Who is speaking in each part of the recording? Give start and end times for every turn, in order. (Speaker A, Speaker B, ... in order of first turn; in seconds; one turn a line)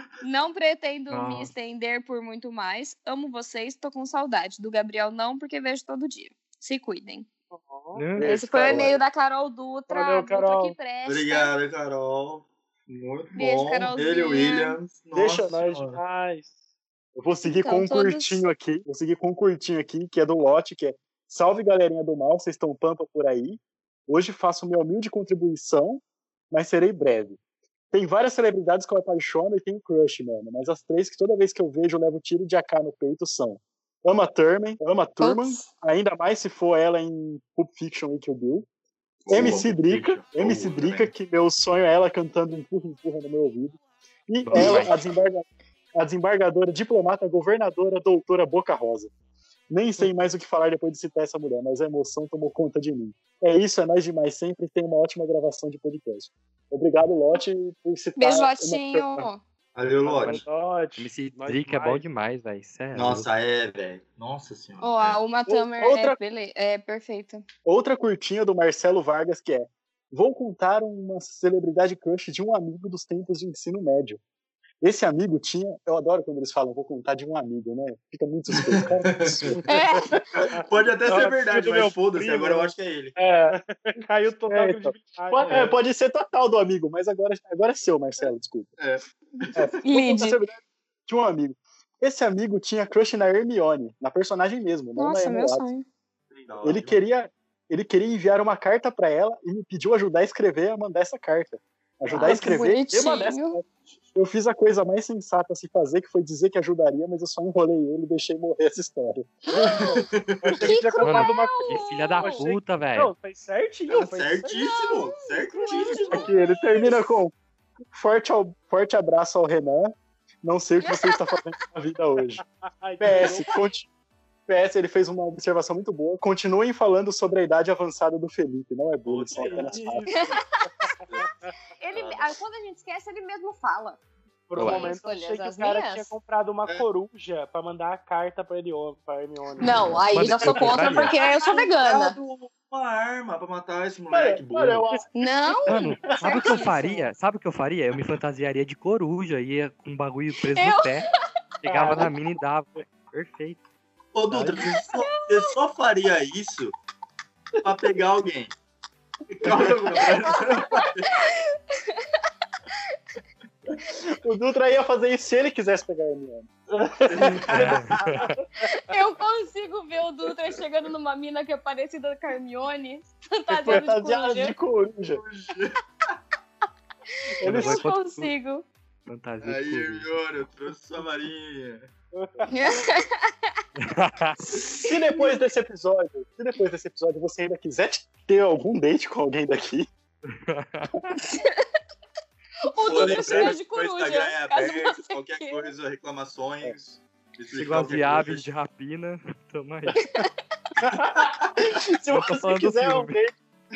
Speaker A: 0.2-7.3
Speaker B: 1.1-1.5
Speaker C: 7.5-8.1
Speaker B: 7.9-8.4
Speaker D: 8.2-9.0
Speaker A: 8.2-11.5
Speaker C: 9.9-10.8
Speaker E: 11.1-16.0
Speaker A: 13.4-14.8
Speaker D: 15.1-15.8
Speaker C: 15.4-16.6
Speaker D: 17.1-27.4
Speaker A: 17.4-18.4
Speaker D: 27.9-38.7
Speaker A: 35.2-35.7
Speaker E: 39.2-41.1
Speaker D: 39.3-43.8
Speaker D: 44.3-45.5
Speaker B: 44.4-45.0
Speaker E: 44.5-44.8
Speaker D: 46.0-49.1
Speaker D: 49.7-59.3
Speaker A: 58.2-59.4
Speaker E: 59.8-60.4
Speaker C: 60.0-62.0
Speaker B: 61.0-63.3
Speaker E: 62.9-65.2
Speaker A: 64.8-67.5
Speaker D: 65.5-66.2
Speaker D: 67.7-74.2
Speaker D: 74.8-79.7
Speaker E: 78.5-79.6
Speaker A: 79.7-80.2
Speaker E: 80.3-83.2
Speaker C: 81.0-85.8
Speaker D: 84.5-88.7
Speaker E: 88.8-89.8
Speaker D: 89.5-95.7
Speaker A: 89.8-90.4
Speaker A: 95.0-95.8
Speaker E: 96.3-97.0
Speaker D: 96.6-109.3
Speaker A: 102.1-103.6
Speaker C: 109.5-114.6
Speaker E: 109.5-110.8
Speaker A: 110.6-112.4
Speaker B: 111.0-113.1
Speaker E: 113.9-116.3
Speaker A: 114.5-116.9
Speaker D: 116.1-117.3
Speaker D: 117.9-122.4
Speaker A: 120.8-121.4
Speaker C: 122.8-123.5
Speaker D: 123.0-123.9
Speaker D: 124.5-130.3
Speaker E: 129.1-129.8
Speaker C: 129.3-131.5
Speaker A: 130.1-130.9
Speaker A: 131.8-134.0
Speaker E: 131.9-132.3
Speaker C: 134.5-139.9
Speaker B: 134.6-134.9
Speaker A: 134.6-136.1
Speaker A: 139.6-142.2
Speaker B: 140.0-141.1
Speaker D: 140.3-141.1
Speaker E: 140.9-145.0
Speaker D: 144.1-145.0
Speaker A: 145.2-147.0
Speaker B: 145.7-151.1
Speaker D: 146.1-146.6
Speaker A: 150.5-151.2
Speaker B: 151.6-153.6
Speaker D: 151.7-152.1
Speaker E: 154.1-156.8
Speaker B: 154.3-154.6
Speaker A: 154.8-155.6
Speaker E: 157.6-158.5
Speaker E: 159.3-161.1
Speaker A: 160.5-162.0
Speaker D: 163.9-166.5
Speaker C: 166.8-167.4
Speaker D: 167.1-167.4
Speaker E: 167.1-168.2
Speaker B: 167.5-168.4
Speaker A: 168.7-174.6
Speaker D: 173.6-175.2
Speaker E: 175.1-175.8
Speaker A: 177.3-178.7
Speaker D: 177.4-177.8
Speaker B: 177.4-178.3
Speaker B: 179.1-180.1
Speaker E: 179.4-181.9
Speaker C: 182.1-182.8
Speaker A: 182.5-183.3
Speaker B: 183.8-184.5
Speaker D: 184.8-189.9
Speaker B: 190.3-191.1
Speaker A: 191.2-191.6
Speaker A: 192.7-195.7
Speaker E: 192.8-198.5
Speaker D: 193.0-193.5
Speaker B: 197.5-200.1
Speaker D: 200.8-203.3
Speaker E: 200.9-201.5
Speaker B: 202.1-203.2